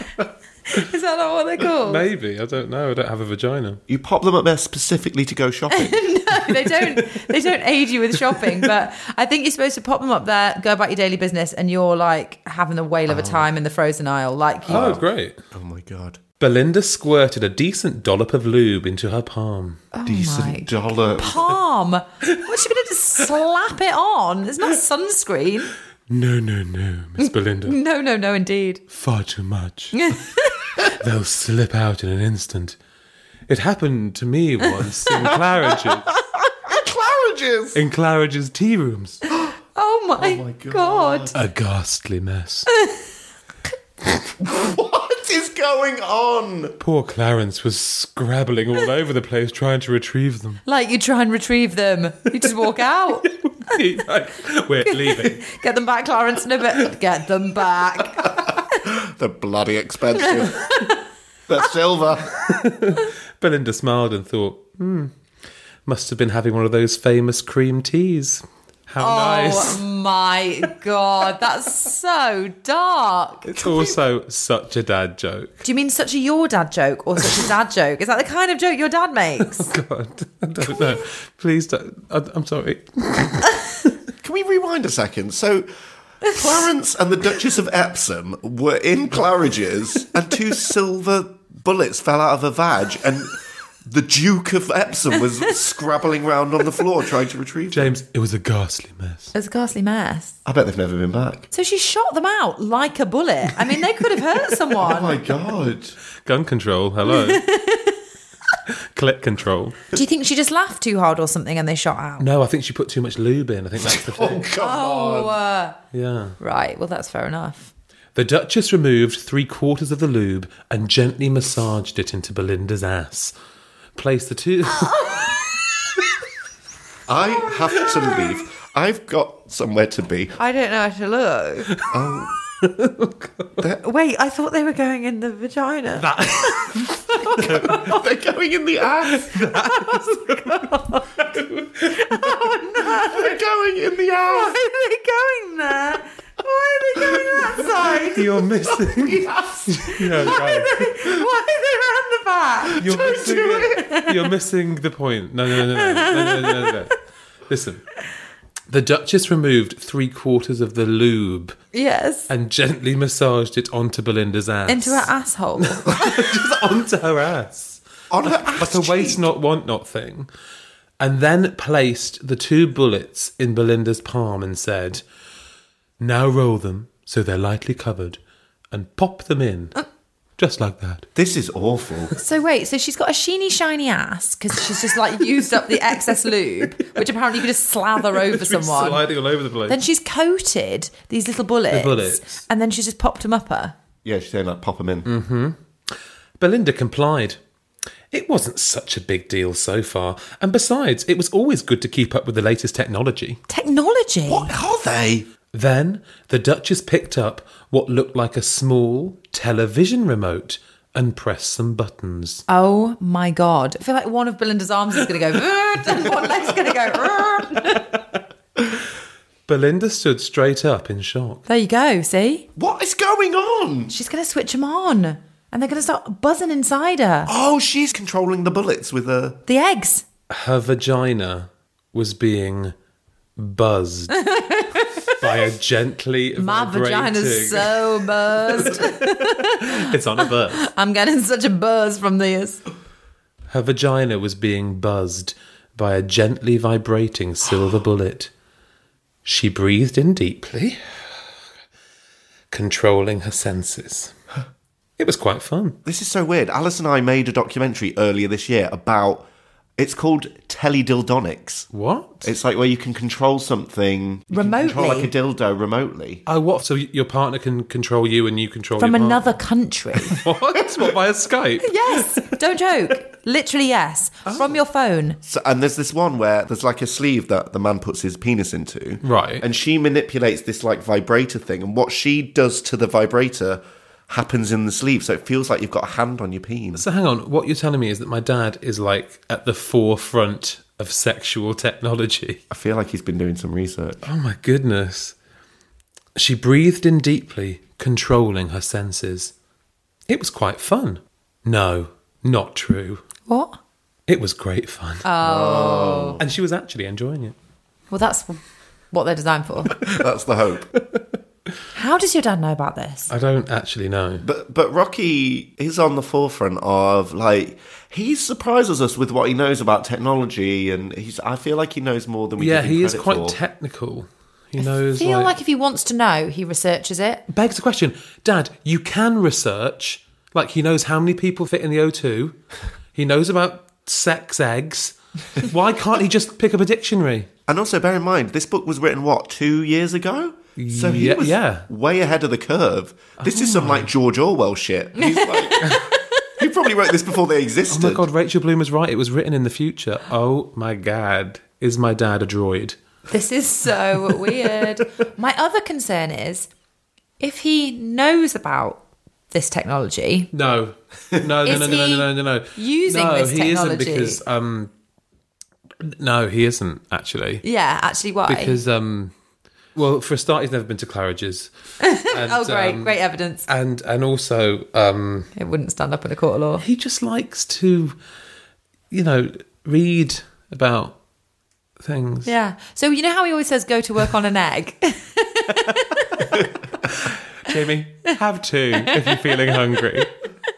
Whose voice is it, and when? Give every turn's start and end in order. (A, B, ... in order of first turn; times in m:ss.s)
0:00.7-0:02.0 A
0:01.8-0:03.8 B
0:03.9-0:06.1 C
0:05.7-0:15.0 A
0:13.1-0:13.5 C
0:14.7-0:16.2 C
0:14.7-0:15.4 B
0:16.4-0:19.8 B
0:19.9-0:25.7 A
0:20.0-0:21.5 C
0:26.1-0:27.8 B
0:27.2-0:28.8 A
0:28.9-0:30.1 B
0:29.9-0:30.7 A
0:30.8-0:32.8 B
0:33.5-0:36.1 B
0:36.6-0:37.8 C
0:37.7-0:39.2 B
0:39.8-0:41.3 A
0:40.2-0:41.4 C
0:41.3-0:42.7 B
0:44.4-0:46.8 C
0:46.8-0:50.6 B
0:50.7-0:53.3 A
0:53.4-0:55.4 B
0:54.9-0:58.8 A
0:58.8-1:00.7 C
1:00.2-1:01.0 A
1:01.5-1:02.4 C
1:02.5-1:05.1 B
1:05.9-1:09.8 B
1:09.0-1:13.9 A
1:13.5-1:15.6 B
1:15.6-1:19.7 A
1:19.4-1:23.9 B
1:20.7-1:21.0 A
1:24.2-1:25.7 C
1:26.3-1:38.0 C
1:37.7-1:39.3 B
1:39.3-1:40.4 A
1:40.4-1:41.5 C
1:41.5-1:45.2 A
1:44.8-1:46.0 C
1:46.2-1:47.4 B
1:47.1-1:48.0 A
1:48.9-1:49.8 B
1:49.9-1:52.3 A
1:52.2-1:54.5 B
1:53.8-1:55.4 C
1:54.6-1:55.8 A
1:55.9-1:56.4 B
1:56.4-1:57.7 A
1:58.2-2:03.4 B
2:04.0-2:05.3 B
2:04.7-2:05.5 A
2:07.1-2:10.4 C
2:10.4-2:11.7 A
2:11.7-2:12.0 B
2:11.9-2:12.3 C
2:12.6-2:13.5 B
2:13.8-2:16.1 A
2:16.0-2:17.9 B
2:17.4-2:19.4 C
2:17.4-2:17.7 A
2:19.0-2:22.2 B
2:21.9-2:23.3 A
2:22.8-2:24.6 C
2:24.2-2:28.2 A
2:27.0-2:29.7 C
2:28.1-2:30.9 B
2:29.8-2:34.2 A
2:32.8-2:33.9 C
2:32.8-2:37.0 B
2:35.7-2:36.8 A
2:37.5-2:37.8 B
2:38.7-2:41.6 B
2:41.7-2:42.3 A
2:42.3-2:50.3 B
2:44.7-2:46.1 A
2:48.1-2:49.2 C
2:51.0-2:55.0 B
2:56.0-2:58.2 B
2:58.7-2:59.8 B
3:00.4-3:01.1 B
3:01.2-3:02.2 C
3:02.2-3:09.0 A
3:08.2-3:09.8 B
3:09.7-3:13.8 A
3:11.7-3:12.4 B
3:14.0-3:15.1 C
3:15.1-3:17.4 B
3:18.1-3:23.4 B
3:23.5-3:24.5 A
3:24.3-3:25.3 C
3:25.5-3:32.4 B
3:32.5-3:37.9 A
3:39.5-3:41.4 B
3:41.5-3:42.5 A
3:42.6-3:43.9 C
3:43.9-3:47.3 A
3:47.3-3:49.4 C
3:49.5-3:50.0 A
3:50.3-3:52.8 B
3:53.4-3:54.1 B
3:54.1-3:55.4 A
3:55.2-4:00.7 B
3:56.4-4:02.6 A
4:03.5-4:08.3 B
4:09.2-4:10.8 B
4:12.5-4:14.1 B
4:15.0-4:15.8 B
4:15.8-4:21.7 C
4:21.7-4:22.3 B
4:22.2-4:26.2 C
4:24.3-4:25.1 A
4:26.3-4:29.4 B
4:28.8-4:30.2 A
4:30.1-4:32.3 B
4:31.6-4:35.2 A
4:35.2-4:46.8 C
4:39.0-4:39.4 B
4:46.8-4:52.4 B
4:52.5-4:54.0 C
4:54.0-4:55.2 B
4:56.2-4:59.3 B
5:00.1-5:03.0 B
5:03.3-5:03.6 A
5:04.1-5:05.1 B
5:05.0-5:06.2 A
5:05.2-5:06.2 C
5:06.2-5:07.4 B
5:07.9-5:08.4 A
5:08.9-5:09.8 A
5:09.8-5:10.7 C
5:11.7-5:13.1 A
5:13.1-5:14.3 B
5:14.2-5:23.4 C
5:22.4-5:25.3 B
5:24.6-5:27.2 A
5:27.3-5:32.4 B
5:33.0-5:37.3 B
5:37.5-5:45.8 C
5:40.6-5:41.7 B
5:43.2-5:43.9 B
5:45.0-5:46.0 A
5:46.4-5:48.0 C
5:47.7-5:52.8 B
5:53.1-5:56.5 A
5:57.2-6:00.3 A
6:00.3-6:04.7 B
6:01.4-6:04.2 A
6:05.8-6:07.4 B
6:07.4-6:08.5 A
6:08.3-6:09.1 B
6:09.8-6:11.5 B
6:11.8-6:13.4 A
6:12.1-6:15.3 B
6:15.4-6:16.6 A
6:16.6-6:18.0 B
6:18.9-6:21.0 B
6:21.8-6:22.3 B
6:22.3-6:26.2 A
6:27.4-6:30.1 B
6:28.9-6:29.3 A